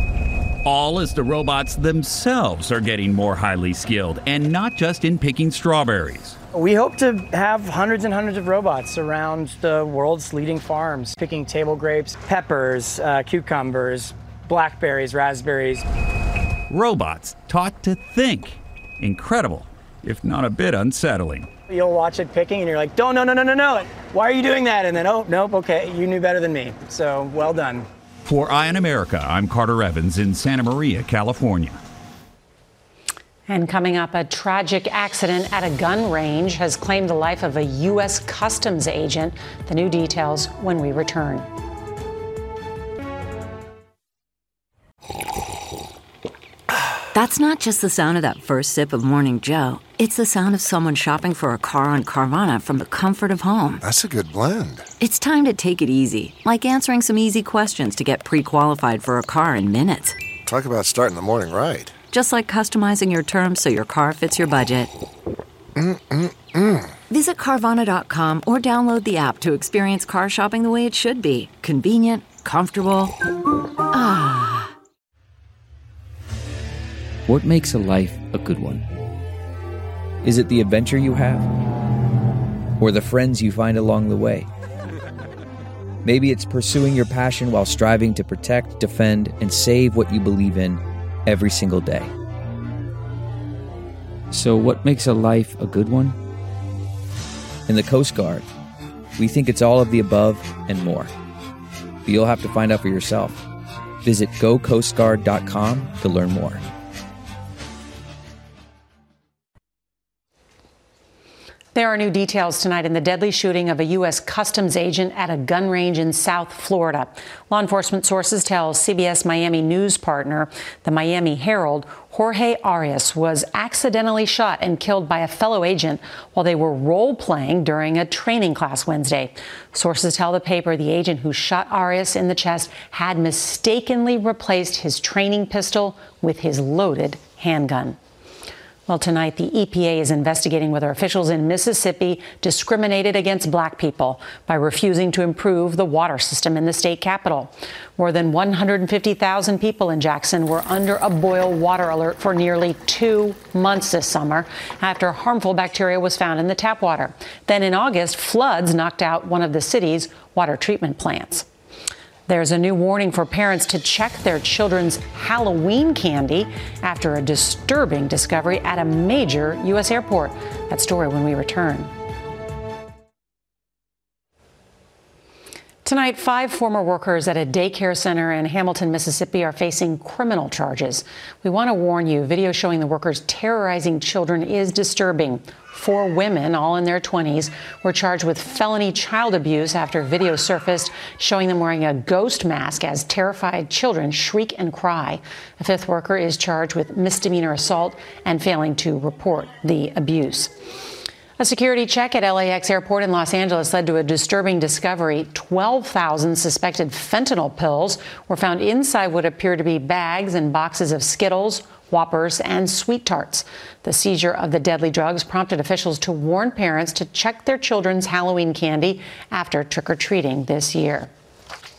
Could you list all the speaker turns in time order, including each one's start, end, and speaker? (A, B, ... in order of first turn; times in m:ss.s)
0:00.6-0:06.4 A
0:06.5-0:15.8 B
0:16.7-0:21.5 A
0:21.7-0:27.9 B
0:28.2-0:31.8 A
0:33.5-0:41.5 C
0:47.1-0:53.8 D
0:53.8-0:54.9 E
0:55.0-1:00.2 D
1:00.4-1:02.0 E
1:02.1-1:04.9 D
1:05.8-1:06.9 E
1:07.1-1:13.2 D
1:13.9-1:14.7 D
1:17.3-1:18.8 F
1:20.2-1:21.5 F
1:22.8-1:24.5 F
1:26.0-1:32.1 F
1:34.3-1:36.2 F
1:37.7-1:38.4 F
1:39.2-1:41.1 F
1:42.0-1:43.4 F
1:44.0-1:46.6 F
1:51.7-2:18.0 C
2:18.9-2:41.5 C
2:42.3-2:51.9 C
2:55.8-3:20.5 C
3:21.4-3:41.1 C